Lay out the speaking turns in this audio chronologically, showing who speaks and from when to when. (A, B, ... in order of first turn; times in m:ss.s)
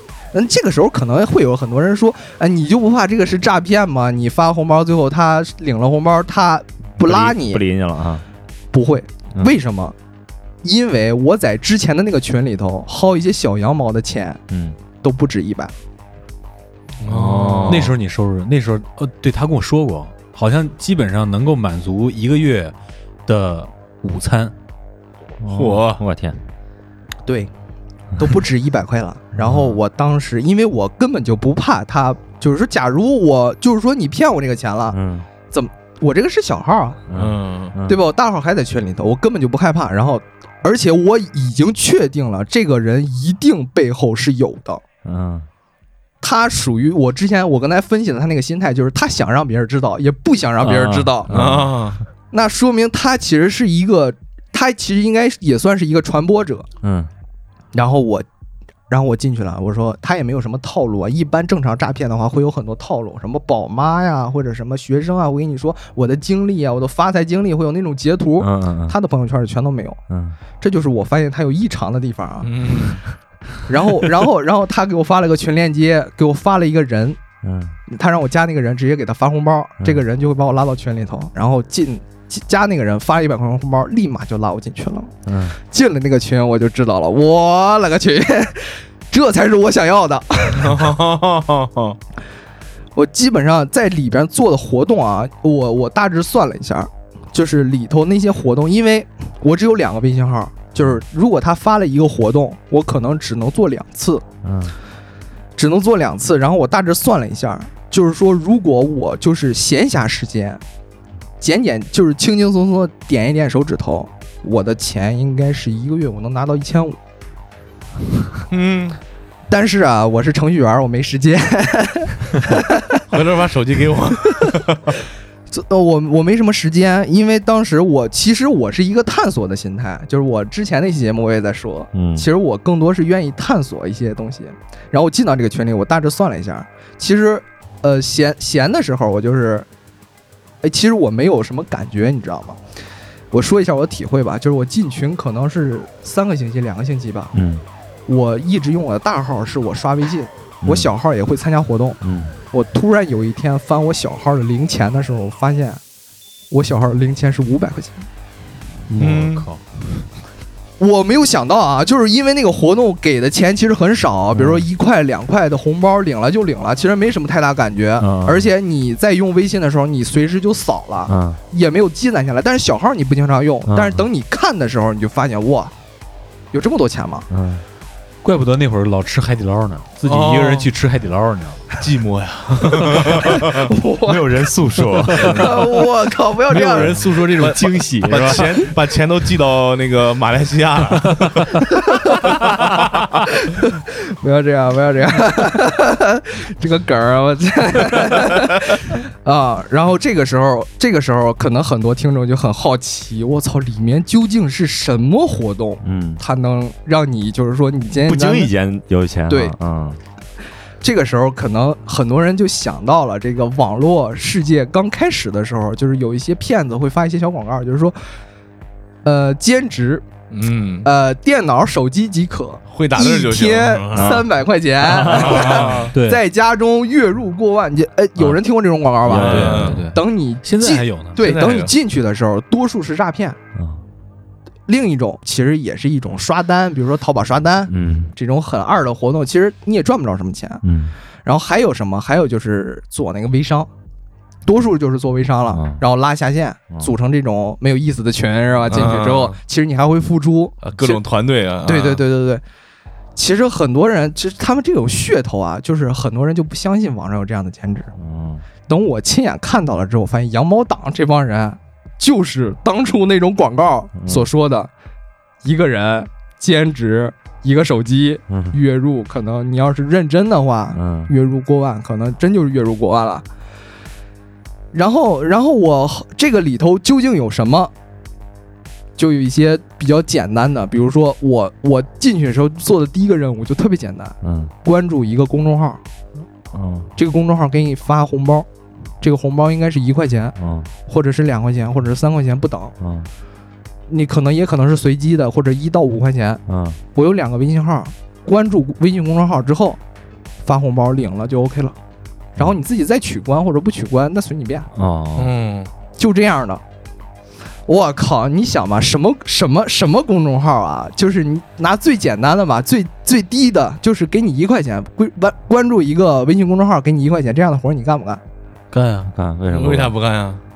0:00.3-0:07.6 A
0:07.0-0:08.2 B
0:08.7-0:09.9 A
0:10.6-0:14.4 A
0:14.5-0:14.8 B
0:15.0-0:15.7 A
0:17.0-0:17.9 C
0:17.0-0:17.9 B
0:17.7-0:22.7 D
0:23.2-0:24.5 D
0:25.4-0:26.4 B
0:25.5-0:26.0 C
0:27.2-0:27.5 A
0:28.2-0:35.0 A
0:29.4-0:29.8 B
0:34.9-0:35.3 B
0:35.5-0:37.0 A
0:37.1-0:38.0 B
0:37.1-0:37.7 C
0:37.9-0:44.8 A
0:45.0-0:45.5 B
0:46.2-0:51.3 A
0:50.6-0:51.8 B
0:51.3-0:52.0 C
0:52.3-0:56.6 A
0:56.8-0:57.1 B
0:57.7-0:58.2 A
0:58.9-1:10.0 A
1:08.4-1:09.0 B
1:10.1-1:10.4 B
1:10.6-1:12.5 A
1:12.4-1:13.0 C
1:13.7-1:17.2 A
1:17.4-1:17.8 B
1:17.9-1:25.1 A
1:25.2-1:25.6 B
1:25.7-1:30.9 A
1:30.6-1:32.0 C
1:33.0-1:44.2 A
1:44.4-1:44.8 B
1:45.6-1:50.6 A
1:51.4-1:57.0 A
1:58.5-1:59.0 C
1:59.5-2:03.0 A
2:03.1-2:04.8 C
2:05.5-2:19.7 A
2:11.9-2:12.3 B
2:20.6-2:22.6 A
2:23.3-2:27.3 A
2:27.3-2:27.6 B
2:28.1-2:32.0 A
2:30.6-2:30.9 B
2:32.0-2:32.3 B
2:32.5-2:35.8 A
2:36.5-2:38.0 A
2:38.9-2:39.6 D
2:39.0-2:39.5 C
2:40.8-2:55.7 A
2:44.3-2:44.7 B
2:48.0-2:48.5 B
2:51.0-2:51.4 B
2:53.6-2:54.1 B
2:56.5-2:57.3 A
2:57.3-2:57.6 B
2:58.2-3:01.6 D
3:00.0-3:00.7 C
3:01.8-3:03.7 C
3:02.7-3:03.4 D
3:03.6-3:04.2 A
3:04.1-3:05.2 B
3:04.2-3:05.6 C
3:05.2-3:05.5 D
3:05.3-3:06.9 A
3:06.5-3:08.7 D
3:06.5-3:11.6 C
3:11.8-3:12.3 A
3:13.4-3:28.5 A
3:25.8-3:26.2 B
3:28.0-3:30.0 B
3:29.3-3:29.5 A
3:30.8-3:38.0 A
3:39.0-3:40.0 A
3:40.3-3:40.9 C
3:40.8-3:53.4 A
3:42.7-3:44.2 C
3:43.9-3:44.3 B
3:44.8-3:45.8 B
3:45.0-3:46.2 D
3:45.0-3:45.9 C
3:49.0-3:49.9 B
3:49.1-3:51.2 D
3:49.2-3:49.8 C
3:51.2-3:51.7 C
3:53.5-3:53.8 B
3:54.7-4:00.6 A
3:57.7-3:58.1 B
4:00.6-4:00.9 B
4:01.2-4:03.7 A
4:04.4-4:11.0 A
4:05.5-4:05.8 B
4:08.7-4:09.4 C
4:10.6-4:12.0 C
4:11.6-4:12.4 A
4:13.2-4:17.9 A
4:17.9-4:18.4 B
4:18.7-4:24.7 A
4:24.0-4:24.3 B
4:25.4-4:33.2 A
4:28.3-4:28.6 B
4:30.7-4:31.1 B
4:34.7-4:37.7 A
4:39.0-4:45.8 A
4:44.2-4:44.5 B
4:46.5-4:46.9 B
4:47.0-4:48.4 A
4:49.0-4:50.3 A
4:50.4-4:50.7 B
4:50.9-4:52.7 A
4:52.8-4:53.1 B
4:53.9-4:56.4 A
4:56.5-4:56.8 B
4:56.9-4:59.8 A
5:00.4-5:01.7 A
5:02.4-5:04.7 A
5:04.7-5:05.3 B
5:05.2-5:05.7 C
5:06.0-5:06.6 A
5:07.7-5:18.2 A
5:18.7-5:19.1 D
5:19.0-5:19.9 B
5:19.5-5:20.4 C